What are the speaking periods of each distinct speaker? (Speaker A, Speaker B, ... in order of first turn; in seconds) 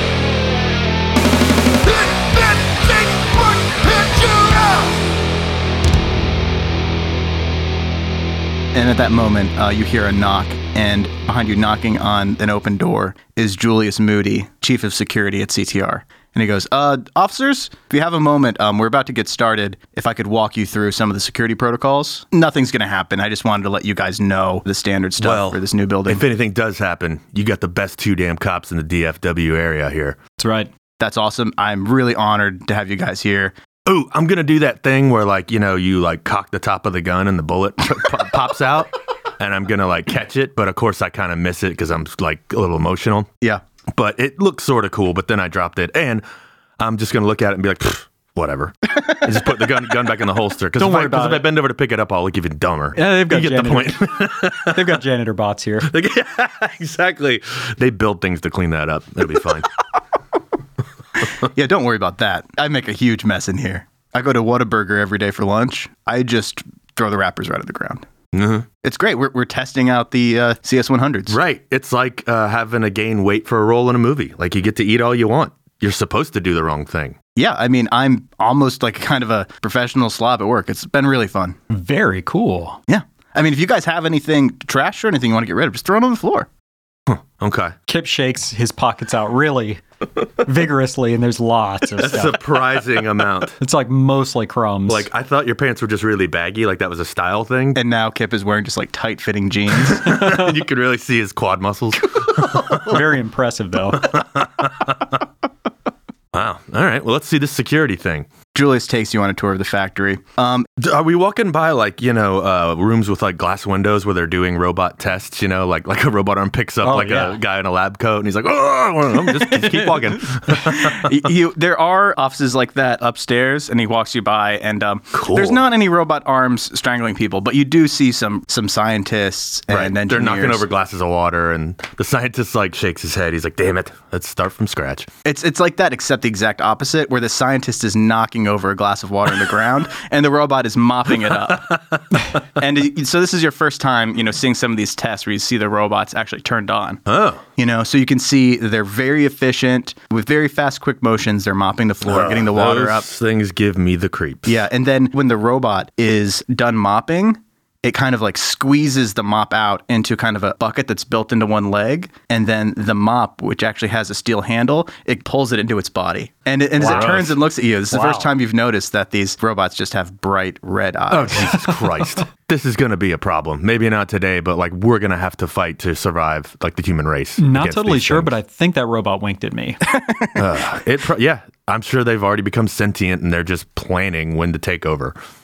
Speaker A: 2.1-4.9, 25.2-30.2, 33.9-43.3, 43.9-46.2, 46.8-55.0, 55.8-59.7, 68.3-68.7, 71.3-77.2, 87.1-87.7, 92.0-93.6, 94.9-97.8, 99.7-103.0, 104.0-105.2, 106.3-108.3, 110.8-121.2, 125.1-125.6, 129.7-135.1, 141.2-142.2, 147.1-147.4, 152.0-154.7, 166.8-167.4, 171.1-178.3, 180.3-185.1
Speaker B: 8.7-26.2, 31.0-33.5, 61.3-68.0, 68.8-71.4, 77.3-81.5, 82.9-86.5, 97.7-100.4, 108.5-110.7, 119.4-130.7, 135.2-141.7, 142.6-147.0, 147.6-153.1, 154.4-171.7, 179.9-180.4
Speaker C: 30.4-30.7, 50.8-51.5, 52.9-54.1, 54.6-55.9, 81.7-82.8, 87.9-89.8, 90.3-92.4, 93.6-95.1, 102.7-104.1, 116.8-117.4, 166.8-167.1, 167.9-168.3, 171.4-171.8, 177.4-179.8